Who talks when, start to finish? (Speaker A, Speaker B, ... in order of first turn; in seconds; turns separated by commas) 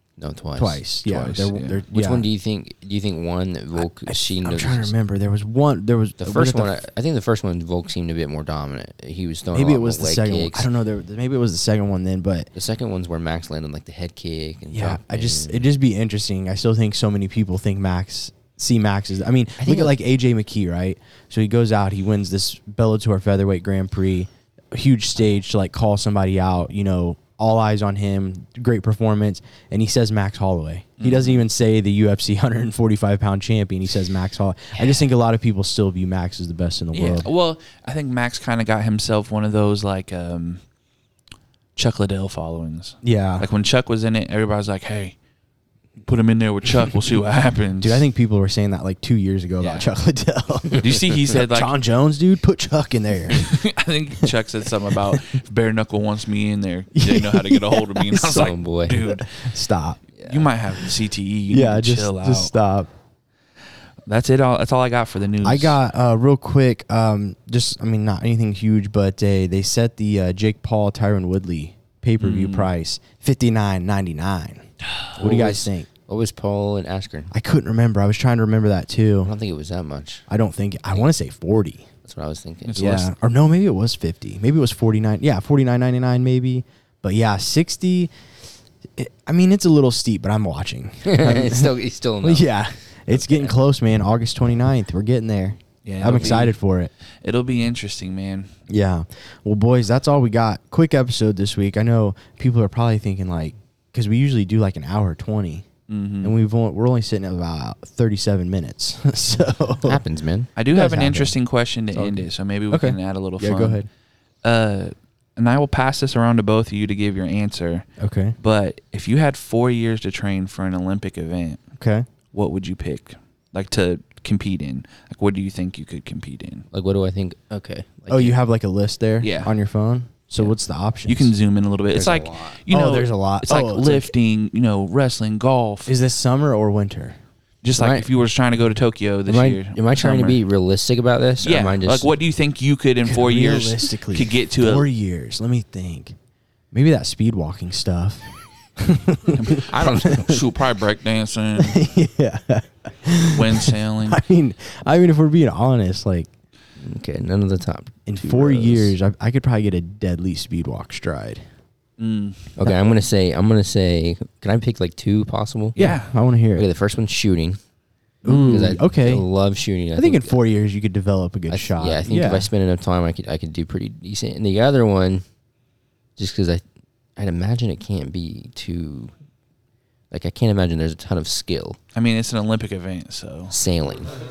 Speaker A: 0.2-0.9, Speaker B: 0.6-2.2, Speaker C: 1.0-1.8, Speaker A: 1.9-4.9, Speaker B: 3.8-6.7, Speaker A: 6.2-10.7, Speaker B: 9.5-12.5, Speaker A: 12.5-15.7, Speaker B: 14.7-37.3, Speaker A: 19.6-19.9, Speaker C: 31.0-31.4, Speaker A: 34.8-35.0, Speaker C: 36.9-40.6, Speaker C: 41.8-45.1, Speaker B: 43.0-43.5, Speaker C: 46.0-48.0, Speaker B: 47.8-53.5, Speaker C: 49.6-49.9, Speaker C: 50.8-51.7, Speaker C: 53.3-59.3, Speaker B: 55.0-55.2, Speaker B: 56.9-60.0, Speaker A: 58.2-59.0, Speaker A: 60.2-60.5, Speaker C: 60.2-62.5, Speaker B: 61.5-62.9, Speaker C: 64.1-65.8, Speaker B: 65.4-75.9, Speaker C: 72.2-72.7, Speaker C: 74.9-75.1, Speaker A: 75.2-77.3, Speaker B: 77.3-79.3, Speaker A: 79.2-80.2, Speaker B: 80.3-81.9, Speaker A: 82.0-83.0, Speaker C: 82.7-83.1, Speaker B: 82.8-88.1, Speaker B: 89.0-96.9, Speaker A: 91.0-93.5, Speaker C: 95.8-96.5, Speaker C: 97.2-98.5, Speaker B: 98.7-105.7, Speaker C: 105.9-106.3, Speaker B: 106.2-110.0, Speaker A: 109.8-110.5, Speaker C: 110.5-113.8, Speaker B: 110.7-111.3, Speaker B: 111.9-113.9, Speaker C: 114.4-117.9, Speaker B: 118.0-118.3, Speaker C: 118.4-121.6, Speaker B: 121.8-122.0, Speaker C: 122.3-126.6, Speaker A: 126.7-128.3, Speaker B: 128.1-131.3, Speaker C: 129.2-129.5, Speaker C: 131.1-135.9, Speaker A: 131.9-132.6, Speaker B: 132.7-134.1, Speaker B: 135.9-137.2, Speaker C: 137.6-140.4, Speaker A: 137.8-138.1, Speaker A: 139.3-142.1, Speaker C: 141.4-144.9, Speaker B: 143.0-146.1, Speaker B: 146.7-150.3, Speaker C: 149.3-151.8, Speaker A: 149.7-150.4, Speaker B: 151.6-156.3, Speaker C: 153.3-154.2, Speaker A: 156.8-158.9, Speaker B: 158.1-161.4, Speaker C: 162.0-162.5, Speaker A: 162.6-165.8, Speaker C: 165.8-166.1, Speaker B: 165.8-166.7, Speaker A: 166.5-167.6, Speaker B: 168.2-169.2, Speaker C: 168.2-168.8, Speaker A: 168.4-170.4, Speaker B: 169.9-172.5, Speaker A: 171.5-175.2, Speaker A: 176.2-176.6, Speaker A: 177.2-179.1, Speaker A: 180.1-181.8, Speaker C: 181.9-183.5, Speaker A: 183.5-184.1